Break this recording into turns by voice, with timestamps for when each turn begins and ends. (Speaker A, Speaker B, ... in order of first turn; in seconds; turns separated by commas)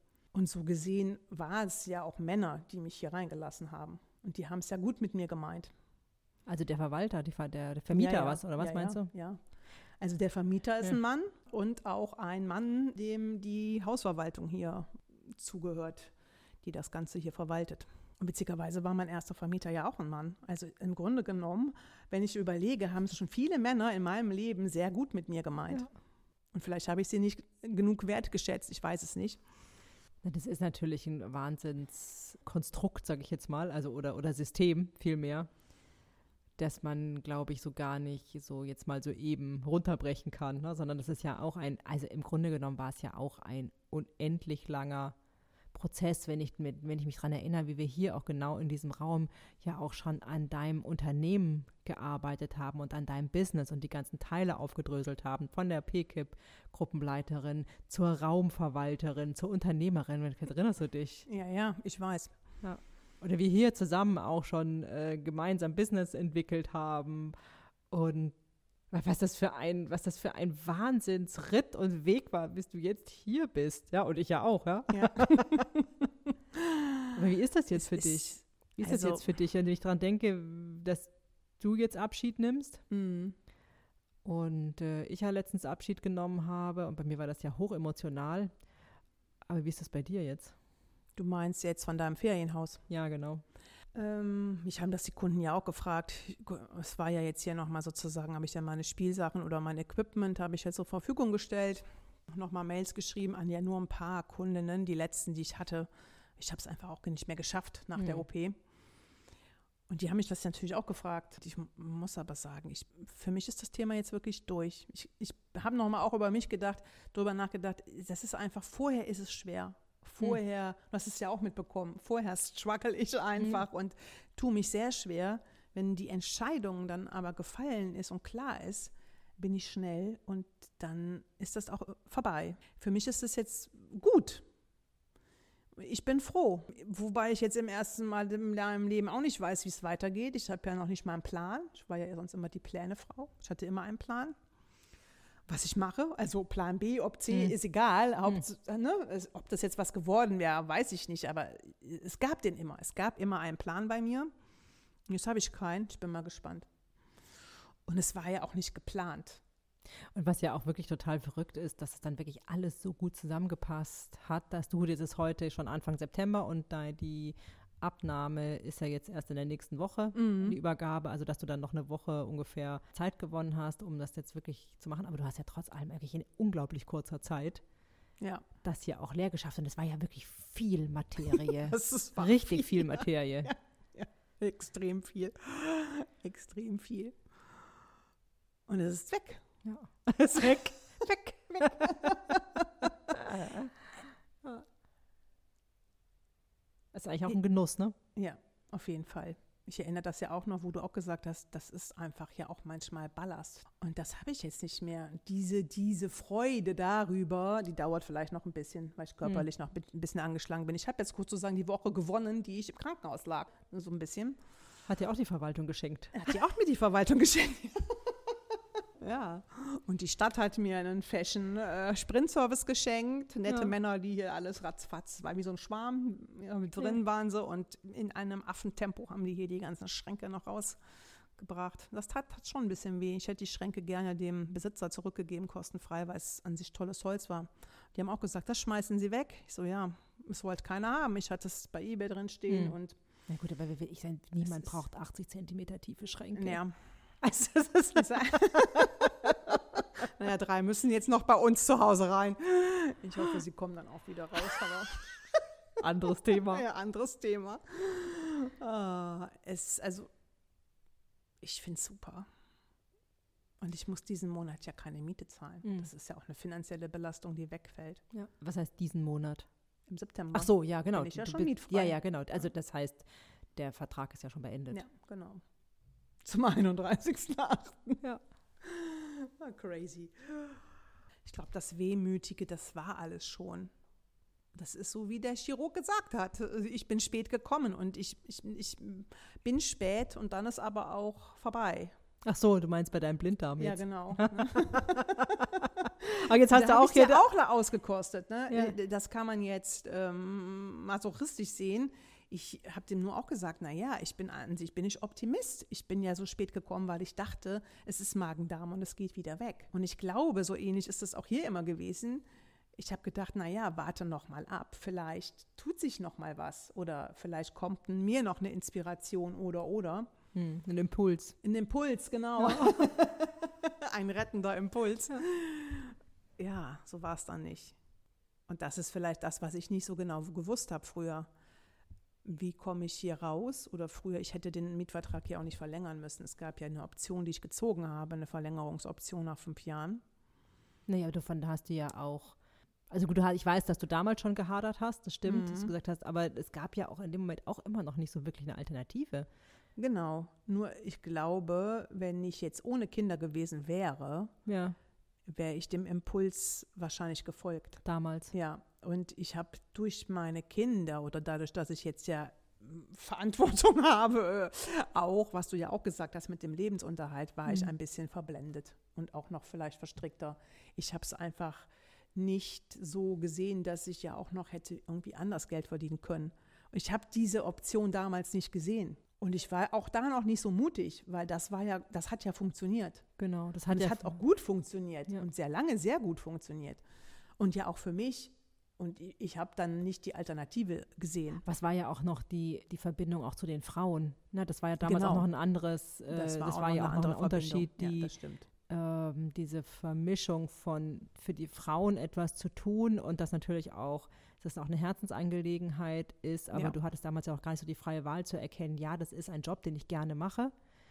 Speaker A: 0.3-5.7, Speaker B: 6.5-9.1, Speaker A: 7.9-9.4, Speaker A: 10.0-25.9, Speaker A: 26.5-29.4, Speaker B: 30.2-35.5, Speaker B: 36.6-45.1, Speaker B: 45.7-61.3, Speaker A: 61.3-62.3, Speaker B: 62.6-67.3, Speaker B: 67.9-68.4, Speaker B: 68.9-75.6, Speaker A: 74.9-77.2, Speaker B: 77.2-82.8, Speaker A: 77.8-79.2, Speaker A: 82.9-83.3, Speaker B: 84.2-88.5, Speaker B: 89.5-90.5, Speaker A: 91.2-92.8, Speaker B: 92.9-93.4, Speaker A: 94.0-108.6, Speaker B: 108.0-108.2, Speaker A: 109.9-134.4, Speaker A: 135.8-144.3, Speaker A: 145.5-154.3, Speaker A: 155.1-156.7, Speaker A: 157.9-159.4, Speaker B: 160.1-177.6, Speaker A: 170.1-170.6, Speaker B: 178.6-183.6, Speaker A: 181.3-187.2, Speaker A: 188.7-189.4, Speaker B: 189.7-192.4, Speaker A: 191.6-193.5, Speaker B: 193.2-193.7, Speaker B: 196.9-197.9, Speaker A: 198.2-214.4, Speaker B: 214.9-216.4, Speaker A: 216.1-230.8, Speaker A: 231.4-242.9, Speaker B: 242.5-242.8, Speaker B: 243.3-246.6, Speaker A: 246.3-246.7, Speaker B: 247.2-249.3, Speaker A: 247.9-255.4, Speaker B: 255.8-256.6, Speaker A: 256.3-260.1, Speaker A: 261.4-262.3, Speaker A: 263.6-268.0, Speaker B: 268.1-269.5, Speaker A: 269.9-272.0, Speaker B: 270.3-274.8, Speaker A: 274.7-275.4, Speaker A: 276.2-278.0, Speaker A: 278.6-280.6, Speaker A: 281.2-283.7, Speaker A: 284.5-291.9, Speaker B: 292.2-297.2, Speaker A: 293.6-295.5, Speaker A: 296.0-320.1, Speaker B: 320.3-321.4, Speaker A: 321.4-327.8, Speaker B: 322.4-322.9, Speaker A: 328.5-331.3, Speaker A: 332.2-340.0, Speaker B: 340.9-342.4, Speaker B: 342.9-349.3, Speaker A: 345.2-345.7, Speaker A: 349.8-354.4, Speaker B: 354.5-354.8, Speaker A: 355.3-357.8, Speaker B: 357.9-358.3, Speaker A: 358.3-383.1, Speaker B: 383.2-384.2, Speaker A: 383.7-386.8, Speaker A: 387.4-391.4, Speaker B: 391.4-398.1, Speaker A: 394.8-395.3, Speaker A: 396.1-398.5, Speaker B: 398.7-410.5